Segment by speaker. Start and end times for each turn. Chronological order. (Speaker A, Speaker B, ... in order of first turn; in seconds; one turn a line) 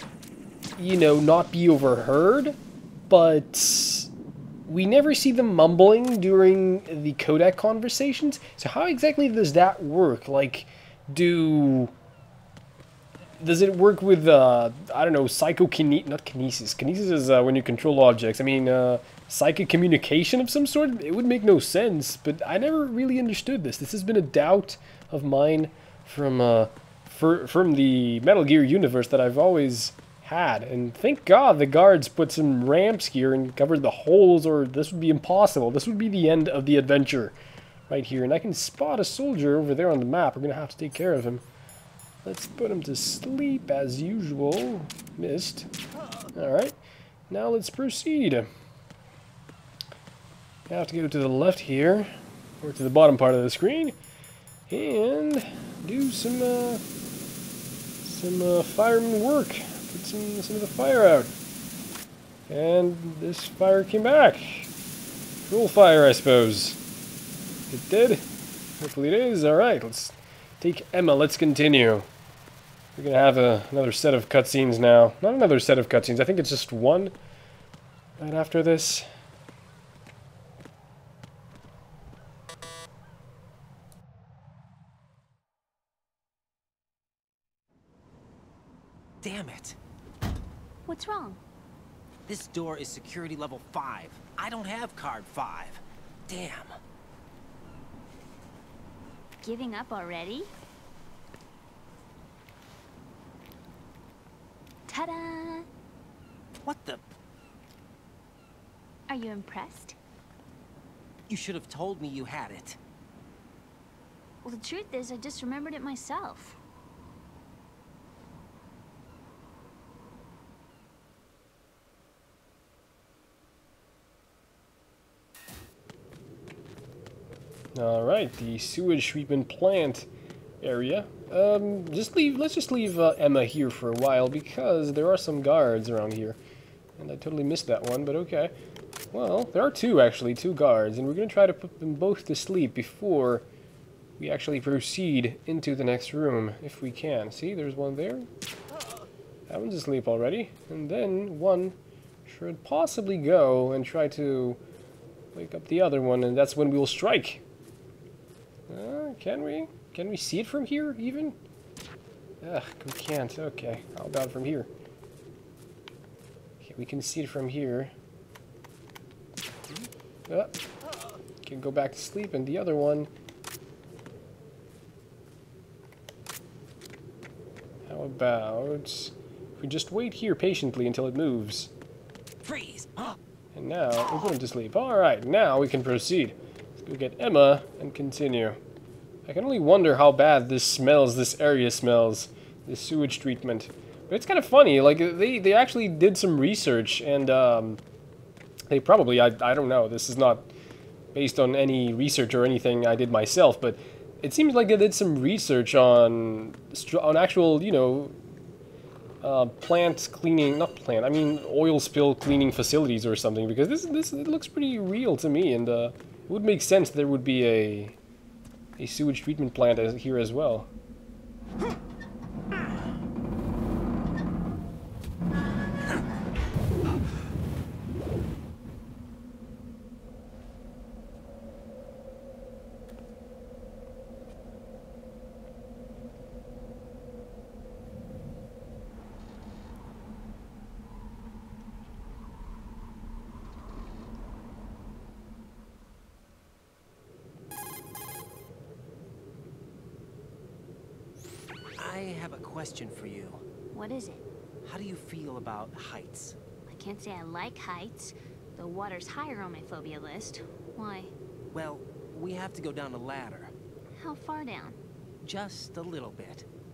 Speaker A: 0.8-2.6
Speaker A: 3.1-4.1
Speaker A: 4.7-11.9
Speaker A: 13.4-37.4
Speaker A: 37.9-41.4
Speaker A: 42.2-45.7
Speaker A: 46.4-46.8
Speaker A: 47.3-48.5
Speaker A: 50.7-52.1
Speaker A: 52.6-54.0
Speaker A: 54.7-56.8
Speaker A: 58.0-61.3
Speaker A: 62.5-64.7
Speaker A: 65.5-66.8
Speaker A: 67.7-68.2
Speaker A: 68.8-72.1
Speaker A: 73.0-77.1
Speaker A: 78.2-79.1
Speaker B: 89.2-89.8
Speaker C: 90.9-91.4
Speaker B: 92.3-96.8
Speaker C: 99.4-100.5
Speaker C: 104.9-105.7
Speaker B: 106.6-107.0
Speaker C: 109.1-110.0
Speaker B: 111.3-112.8
Speaker C: 114.4-116.6
Speaker A: 127.8-130.1
Speaker A: 130.6-136.4
Speaker A: 137.0-138.5
Speaker A: 139.1-143.5
Speaker A: 144.2-148.3
Speaker A: 149.5-154.6
Speaker A: 155.3-157.4
Speaker A: 158.7-161.4
Speaker A: 162.4-164.7
Speaker A: 166.6-167.9
Speaker A: 170.3-170.6
Speaker A: 171.4-173.1
Speaker A: 177.9-181.7
Speaker B: 182.4-183.2
Speaker A: 183.5-188.6
Speaker A: 189.3-197.8
Speaker A: 198.7-200.5
Speaker A: 201.1-208.2
Speaker A: 209.2-218.0
Speaker A: 218.8-220.7
Speaker B: 251.8-253.4
Speaker C: 253.7-254.2
Speaker B: 254.6-256.4
Speaker C: 256.7-261.1
Speaker B: 261.5-263.5
Speaker C: 264.0-264.8
Speaker B: 265.2-266.5